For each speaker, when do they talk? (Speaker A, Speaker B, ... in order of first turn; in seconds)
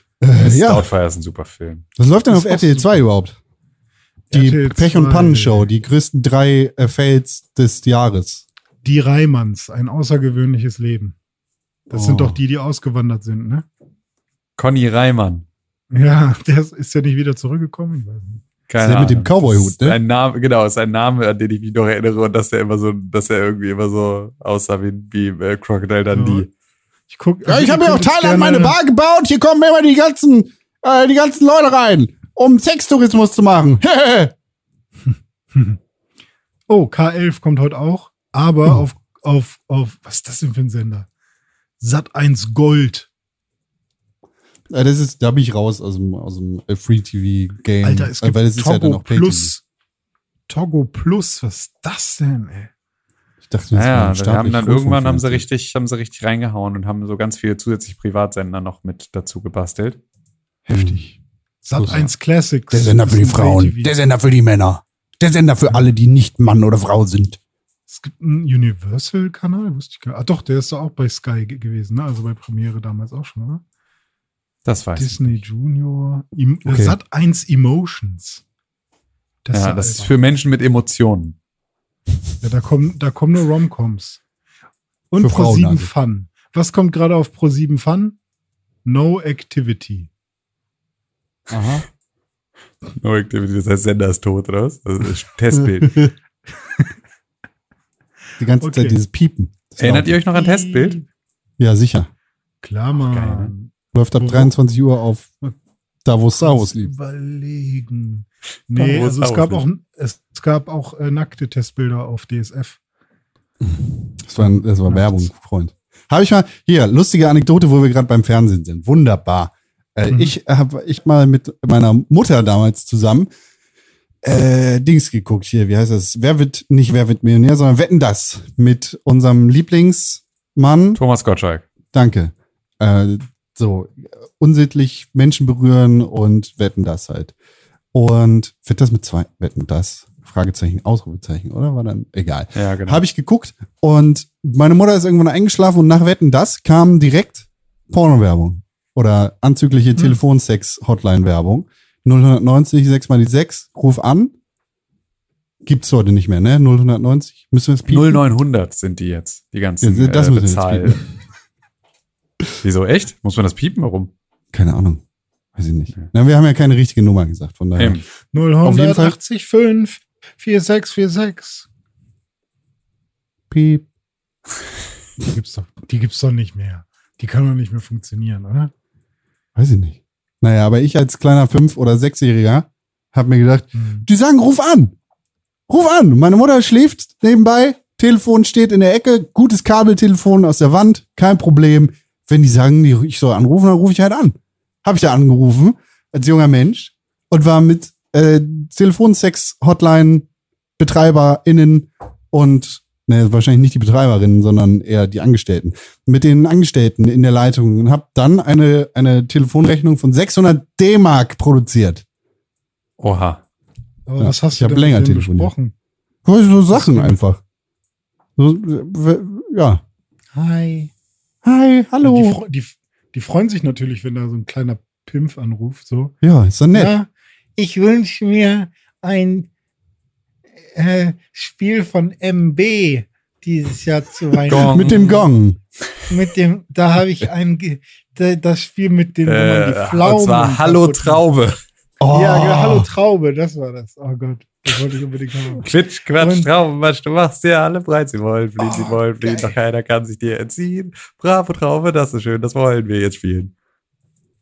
Speaker A: 0.2-0.9, 2.0-3.4, 4.3-8.4, 11.9-12.4, 18.8-20.0, 27.5-34.3, 44.7-49.5, 53.4-55.4, 60.7-61.2, 61.8-62.1, 62.7-67.4, 76.7-76.9, 85.2-85.9, 91.5-91.8, 98.4-100.1, 101.6-102.1, 103.9-105.3, 106.0-106.9, 113.6-123.3, 124.2-131.0, 131.9-137.3, 137.9-154.3, 155.6-158.2, 159.8-161.0, 164.5-165.0, 165.6-168.0, 168.6-169.1, 173.5-173.9, 179.5-184.9, 185.7-200.3, 200.8-212.0, 214.2-215.5, 216.2-217.4, 218.4-219.8, 221.4-222.4, 226.2-226.9, 234.5-235.6, 242.0-242.9
Speaker B: 0.3-1.8, 14.6-15.4, 18.7-26.5, 53.7-60.0, 74.6-75.4, 79.5-81.3, 93.0-96.0, 99.8-101.0, 103.0-103.5, 108.8-109.6, 131.0-131.6, 142.5-143.0, 157.9-161.0, 162.6-164.1, 167.8-168.0, 213.0-213.4, 234.5-235.0, 239.2-241.6, 245.6-253.5
Speaker C: 2.3-3.0, 4.3-5.7, 8.8-11.1, 11.9-13.7, 15.9-18.4, 26.1-26.5, 27.1-28.8, 35.5-35.8, 36.7-41.1, 41.8-43.1, 47.8-49.6, 50.5-52.7, 60.7-61.0, 61.6-63.9, 67.9-73.6, 75.0-78.4, 79.4-80.1, 82.4-84.2, 85.1-88.2, 88.8-90.1, 98.6-99.0, 100.3-101.0, 102.6-104.5, 106.3-112.8, 114.4-115.3, 120.1-120.3, 168.3-171.7, 175.2-178.7, 183.7-184.1, 214.1-215.7, 216.7-217.2, 220.3-220.9, 222.0-226.1, 226.7-229.5, 230.7-235.2, 236.1-241.2, 242.1-246.5, 248.7-249.5